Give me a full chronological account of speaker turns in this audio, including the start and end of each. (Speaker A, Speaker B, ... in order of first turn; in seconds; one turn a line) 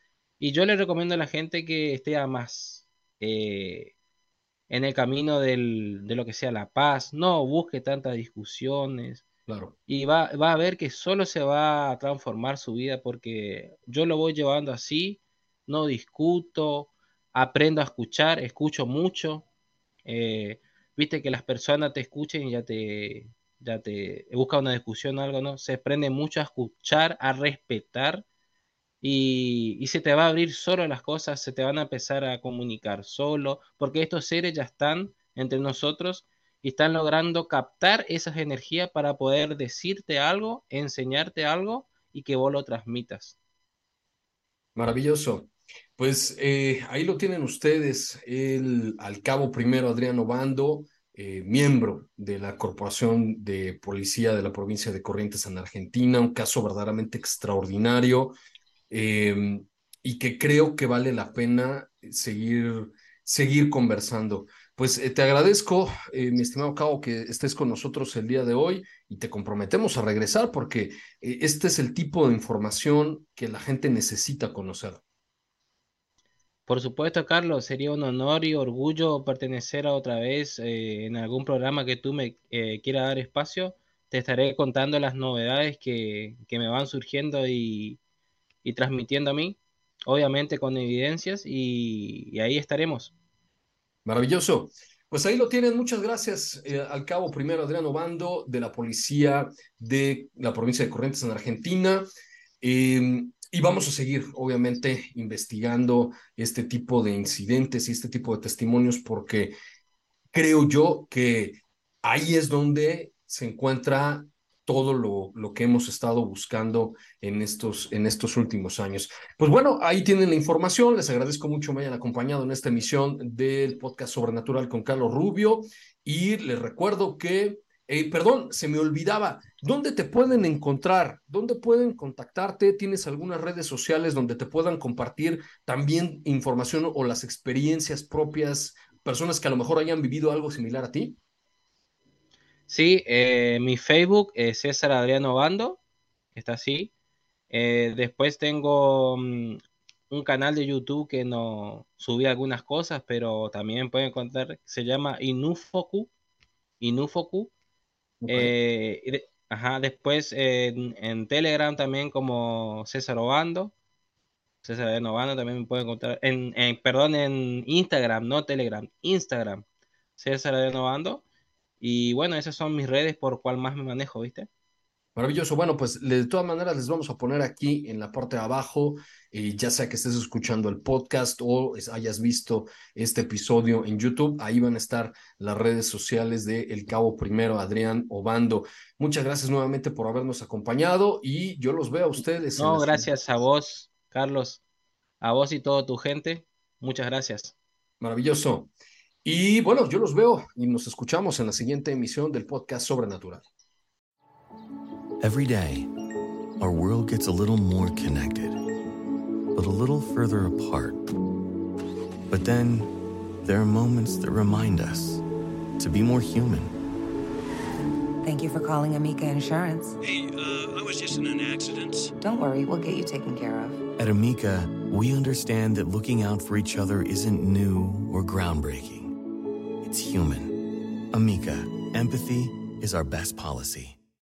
Speaker A: 0.4-3.9
Speaker A: 4.7-9.2
Speaker B: 9.5-9.8
Speaker A: 9.9-19.4
Speaker A: 20.1-28.2
Speaker A: 29.0-43.4
Speaker B: 44.8-58.4
Speaker B: 58.9-75.0
Speaker A: 76.7-88.0
Speaker A: 88.6-93.1
Speaker B: 94.0-102.1
Speaker B: 102.6-109.5
Speaker B: 110.3-141.2
Speaker A: 142.7-145.8
Speaker A: 146.3-146.9
Speaker A: 147.5-149.6
Speaker A: 150.1-156.1
Speaker A: 156.8-157.5
Speaker B: 158.2-158.5
Speaker A: 158.3-163.7
Speaker A: 164.6-169.7
Speaker A: 170.2-171.2
Speaker A: 171.8-174.5
Speaker B: 175.2-193.1
Speaker A: 192.6-194.6
Speaker A: 195.2-197.6
Speaker B: 198.0-198.7
Speaker B: 199.2-203.4
Speaker C: 205.2-205.9
Speaker C: 206.6-208.6
Speaker C: 209.6-211.0
Speaker C: 212.3-212.9
Speaker C: 213.4-215.2
Speaker C: 215.8-216.7
Speaker D: 218.2-219.9
Speaker E: 220.0-222.1
Speaker D: 222.2-223.8
Speaker C: 224.0-229.1
Speaker C: 229.8-230.5
Speaker C: 231.1-234.0